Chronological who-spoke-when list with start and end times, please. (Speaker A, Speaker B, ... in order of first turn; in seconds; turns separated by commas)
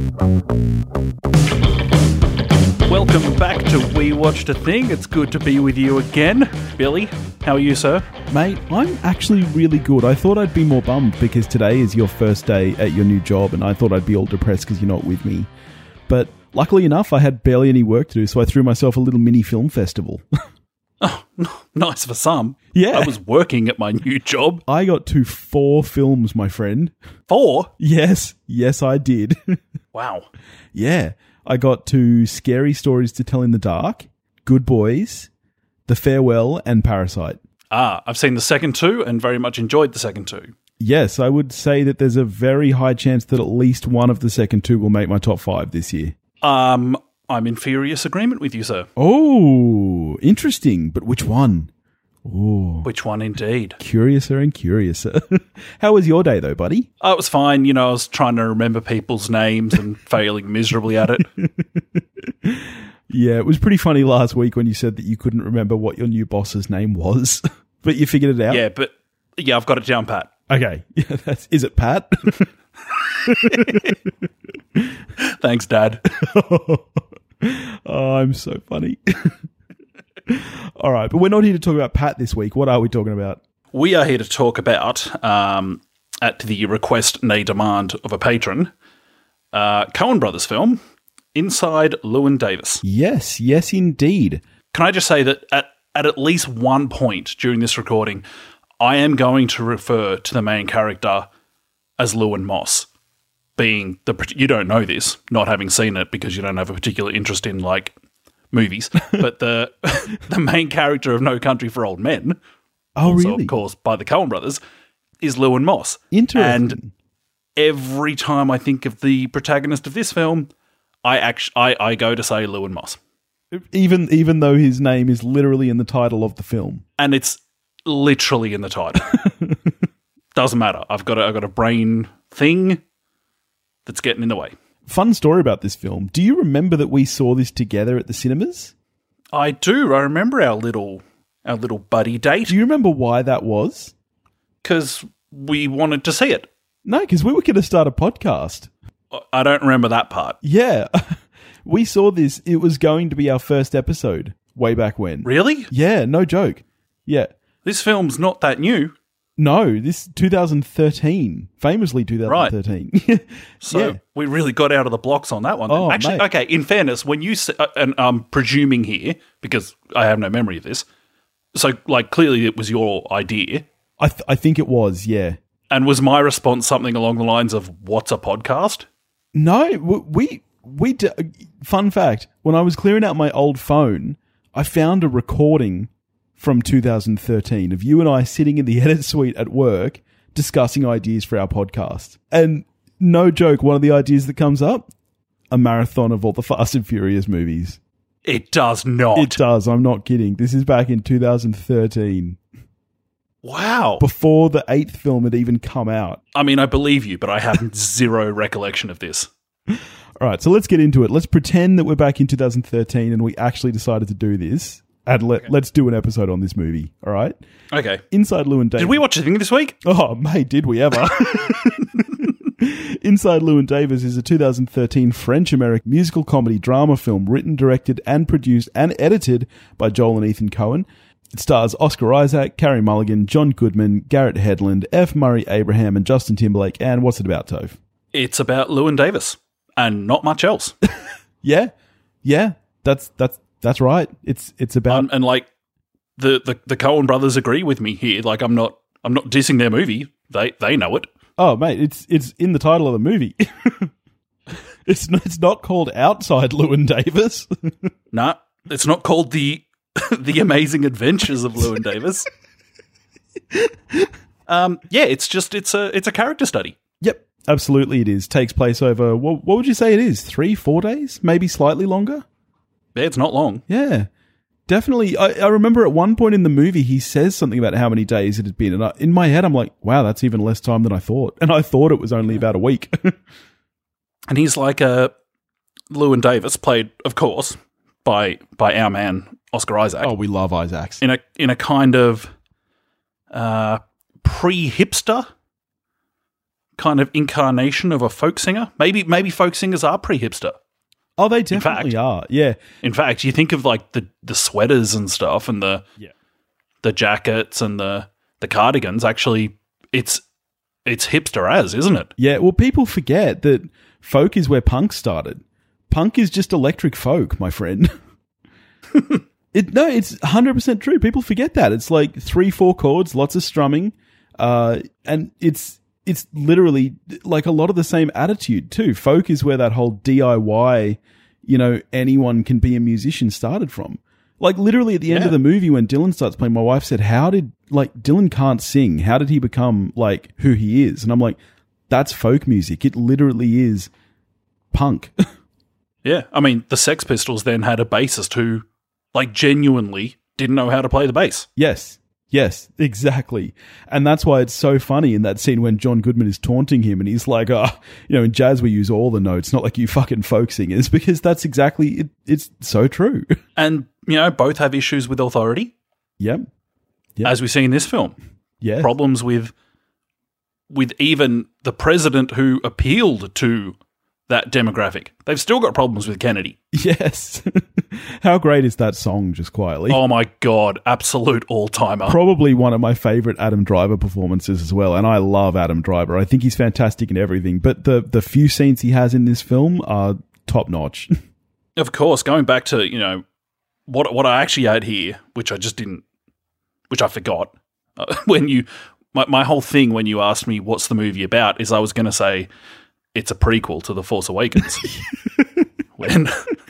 Speaker A: 2.9-8.1, Speaker B: 8.3-15.5, Speaker B: 16.1-20.2, Speaker A: 21.0-24.6, Speaker B: 22.7-23.1, Speaker B: 24.7-26.9, Speaker A: 27.3-27.7, Speaker B: 27.8-29.6, Speaker A: 29.9-30.3, Speaker B: 30.7-35.3, Speaker B: 35.9-37.4, Speaker A: 37.7-40.5, Speaker B: 40.8-46.1, Speaker A: 46.4-48.9, Speaker B: 49.0-51.7, Speaker B: 52.2-52.9, Speaker A: 52.8-53.8, Speaker B: 53.8-56.9, Speaker A: 57.0-61.3, Speaker B: 61.2-68.6, Speaker A: 68.5-70.3, Speaker B: 70.5-72.5, Speaker A: 73.1-73.9, Speaker B: 73.3-74.1, Speaker A: 75.2-76.1, Speaker B: 76.2-79.4, Speaker B: 80.3-83.4, Speaker A: 83.7-88.7, Speaker A: 89.5-90.8, Speaker A: 91.3-92.8, Speaker B: 92.8-94.4, Speaker A: 94.7-98.2, Speaker A: 98.8-101.3, Speaker A: 102.0-102.9, Speaker A: 103.6-107.9, Speaker A: 108.5-112.4, Speaker B: 113.0-113.6, Speaker A: 113.0-114.6, Speaker A: 115.2-116.8, Speaker B: 116.1-116.9, Speaker A: 117.5-120.5, Speaker A: 121.0-123.0, Speaker B: 123.5-126.8, Speaker A: 127.0-129.1, Speaker B: 129.1-129.7, Speaker A: 130.3-132.8, Speaker A: 133.8-134.5, Speaker B: 134.8-138.7, Speaker A: 139.3-142.5, Speaker B: 142.5-143.9, Speaker A: 144.6-146.5, Speaker B: 146.8-148.7, Speaker A: 149.1-150.4, Speaker B: 150.4-157.3, Speaker A: 155.2-155.7, Speaker A: 157.6-158.9, Speaker B: 159.4-164.0, Speaker A: 162.3-162.5, Speaker A: 163.6-170.8, Speaker B: 165.7-166.2, Speaker A: 171.5-173.7, Speaker B: 174.0-175.4, Speaker A: 175.7-178.8, Speaker B: 179.3-194.9, Speaker B: 195.5-197.8, Speaker A: 198.2-199.4, Speaker B: 199.2-202.4, Speaker A: 203.4-204.0, Speaker B: 204.0-206.2, Speaker A: 206.3-209.3, Speaker B: 209.7-217.3, Speaker A: 217.7-218.0, Speaker B: 218.1-219.0, Speaker A: 218.8-219.8, Speaker B: 219.8-237.8, Speaker A: 238.1-240.7, Speaker B: 241.4-241.7, Speaker B: 242.2-245.1, Speaker A: 244.9-245.5, Speaker A: 246.2-251.1, Speaker B: 251.4-253.9, Speaker B: 254.8-257.9, Speaker A: 258.1-262.3, Speaker B: 263.5-264.1, Speaker A: 264.5-266.8, Speaker B: 267.0-272.2, Speaker A: 272.9-273.6, Speaker B: 273.7-274.1, Speaker B: 274.7-283.2, Speaker A: 284.3-285.1, Speaker A: 285.9-290.1, Speaker B: 290.0-291.0, Speaker A: 291.0-292.3, Speaker A: 293.3-295.3, Speaker A: 296.8-300.6, Speaker B: 301.2-302.6, Speaker A: 301.5-301.9, Speaker A: 302.8-305.8, Speaker A: 306.8-310.2, Speaker A: 310.9-312.1, Speaker B: 312.2-317.9, Speaker B: 319.5-341.4, Speaker A: 335.1-335.3, Speaker B: 341.9-343.9, Speaker B: 344.7-345.1, Speaker A: 346.0-351.5, Speaker B: 351.6-363.2, Speaker A: 363.6-365.7, Speaker B: 366.2-366.4, Speaker A: 367.2-368.1, Speaker B: 368.6-368.9, Speaker A: 368.8-369.5, Speaker A: 370.7-373.8, Speaker A: 374.3-376.6, Speaker B: 376.7-380.0, Speaker A: 379.9-382.2, Speaker B: 382.1-391.1, Speaker A: 391.8-393.2, Speaker A: 393.9-396.0, Speaker A: 396.9-402.5, Speaker A: 403.1-404.9, Speaker B: 404.8-405.7, Speaker A: 406.0-406.5